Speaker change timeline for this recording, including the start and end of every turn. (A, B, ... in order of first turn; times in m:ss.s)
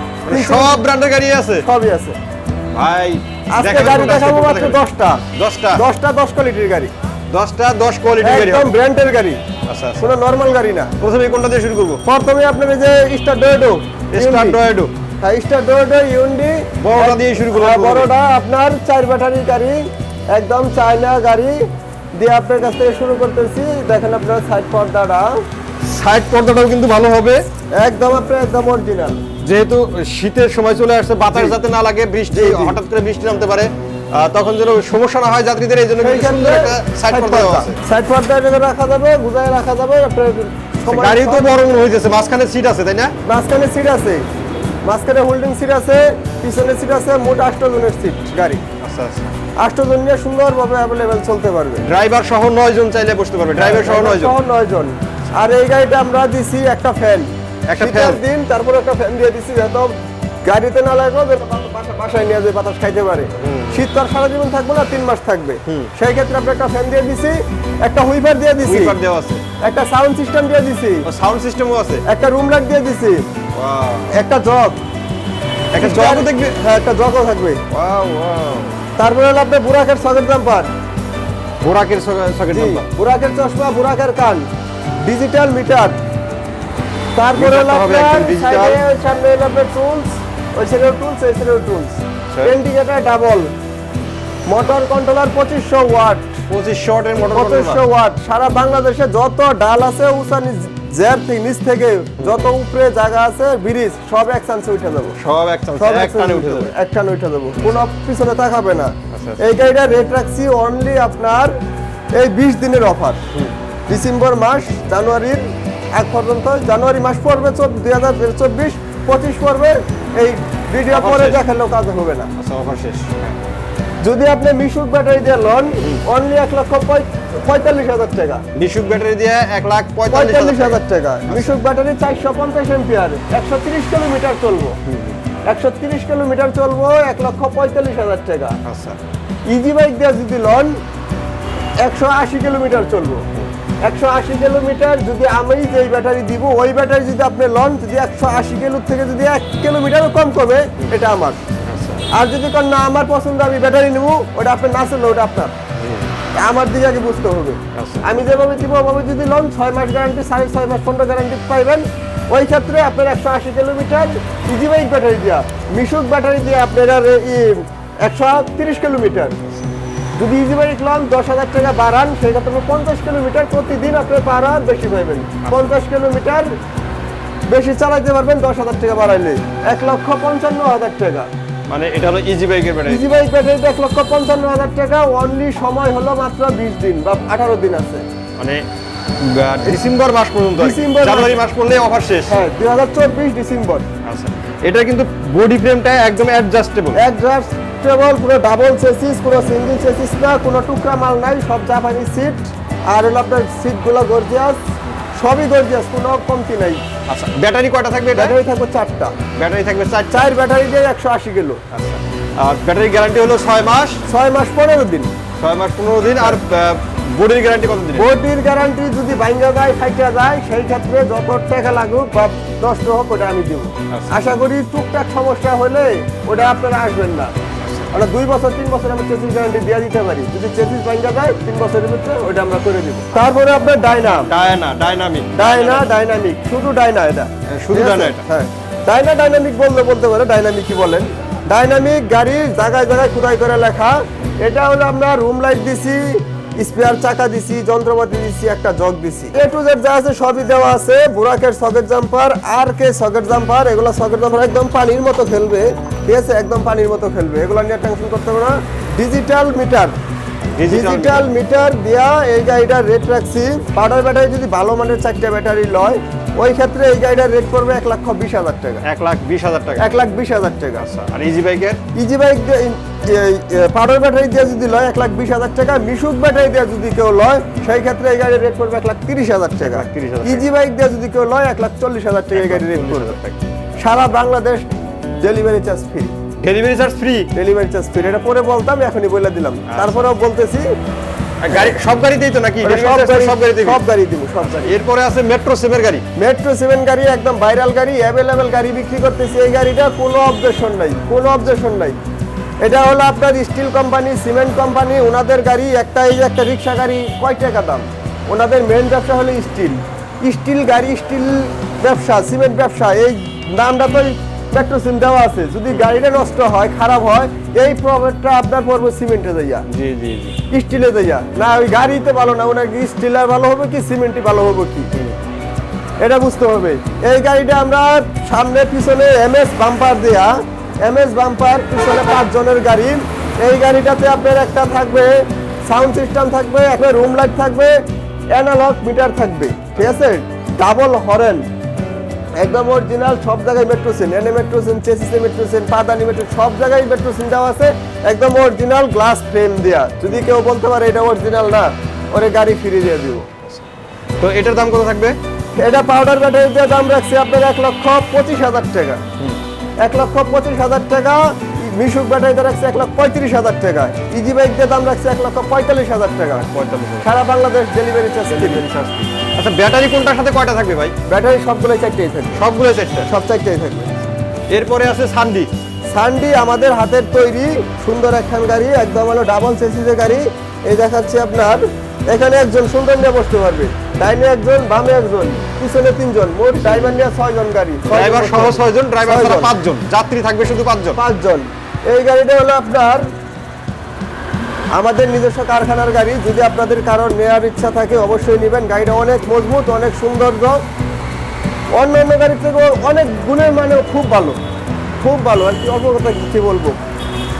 0:00.2-0:00.8 A
0:00.3-0:01.6 B
0:01.6-0:02.2 A
0:02.7-0:04.8 B
0:03.5-0:06.9 A
0:05.3-0:05.8 B
0:07.3-0:08.7 B
0:08.2-0:09.4 A
0:09.7-0:10.1 B
0:10.0-0:10.9 A
0:11.0-0:12.0 B
0:12.0-0:14.6 A
0:14.1-0:14.9 B
0:15.2-0:21.6 A
0:16.8-0:18.1 B
0:22.2-0:25.3 A
0:25.8-0:27.4 B
0:27.7-0:29.2 A
0:29.4-0:37.8 B
0:31.3-0:31.6 A
0:32.3-0:32.8 A
0:36.0-0:41.6 A
0:40.8-0:43.1 B
0:43.2-0:44.2 A
0:44.8-0:48.6 A
0:48.8-0:49.3 B
0:49.6-0:51.9 A
0:51.8-0:54.4 B
0:53.5-0:59.9 A
0:57.7-0:58.2 B
1:00.4-1:09.0 A
1:03.4-1:03.9 B
1:08.6-1:09.4 B
1:09.6-1:11.0 A
1:11.0-1:12.0 B
1:12.0-1:13.2 A
1:13.5-1:14.1 B
1:14.1-1:14.8 A
1:15.7-1:16.6 B
1:15.8-1:17.6 A
1:17.7-1:18.7 B
1:19.0-1:20.7 A
1:21.6-1:22.8 B
1:22.5-1:24.4 A
1:25.0-1:26.0 A
1:27.2-1:33.5 A
1:27.3-1:28.8 B
1:34.5-1:36.3 A
1:36.5-1:37.8 B
1:37.3-1:45.2 A
1:45.2-1:46.7 B
1:45.8-1:51.5 A
1:49.1-1:49.4 B
1:52.1-1:53.2 A
1:53.9-1:55.4 A
1:55.9-2:02.3 A
2:00.9-2:01.4 B
2:02.4-2:03.4 B
2:04.0-2:08.4 A
2:08.5-2:11.6 B
2:10.1-2:14.8 A
2:14.8-2:15.2 B
2:15.4-2:18.6 A
2:18.6-2:19.0 B
2:19.5-2:20.8 A
2:21.8-2:23.2 A
2:23.8-2:31.4 A
2:31.6-2:32.0 B
2:32.1-2:35.5 A
2:35.8-2:36.1 B
2:36.4-2:49.4 A
2:37.7-2:38.1 B
2:50.2-2:56.4 A
2:55.4-2:55.7 B
2:57.5-3:01.3 A
3:01.7-3:03.0 B
3:02.9-3:08.0 A
3:09.2-3:12.3 B
3:10.6-3:11.4 A
3:12.3-3:13.9 A
3:14.0-3:17.0 B
3:16.9-3:24.6 A
3:25.2-3:26.8 A
3:27.1-3:28.3 B
3:28.1-3:29.1 A
3:29.3-3:30.3 B
3:30.1-3:31.6 A
3:31.7-3:34.0 B
3:34.1-3:35.1 A
3:35.4-3:38.1 B
3:37.9-3:47.3 A
3:43.9-3:44.3 B
3:47.6-3:47.9 B
3:47.9-3:54.3 A
3:54.3-3:55.9 B
3:55.4-4:06.1 A
3:57.5-3:58.2 B
4:06.6-4:20.0 A
4:20.5-4:21.3 B
4:20.6-4:28.8 A
4:28.8-4:30.0 B
4:29.8-4:30.8 A
4:30.8-4:31.8 B
4:31.9-4:43.2 A
4:39.6-4:40.5 B
4:42.3-4:43.5 B
4:43.8-4:44.7 A
4:45.2-4:46.1 A
4:46.4-4:47.3 B
4:47.3-4:50.6 A
4:49.7-4:50.0 B
4:51.4-4:53.8 B
4:51.5-4:51.8 A
4:52.6-4:54.8 A
4:54.4-4:56.0 B
4:56.2-5:02.0 A
5:02.6-5:19.6 A
5:19.7-5:20.4 B
5:20.5-5:24.9 A
5:26.0-5:35.1 A
5:35.7-5:37.8 A
5:38.3-5:41.4 A
5:42.4-5:53.3 A
5:54.2-5:55.2 B
5:55.6-5:59.0 A
5:59.8-6:06.5 A
6:06.4-6:07.1 B
6:07.0-6:08.6 A
6:08.3-6:10.9 B
6:11.1-6:12.4 A
6:12.4-6:13.1 B
6:13.0-6:14.0 A
6:14.5-6:15.5 B
6:15.9-6:29.5 A
6:26.6-6:27.0 B
6:27.9-6:31.0 B
6:31.0-6:33.1 A
6:34.7-6:40.6 A
6:41.8-6:44.4 A
6:45.0-6:46.8 A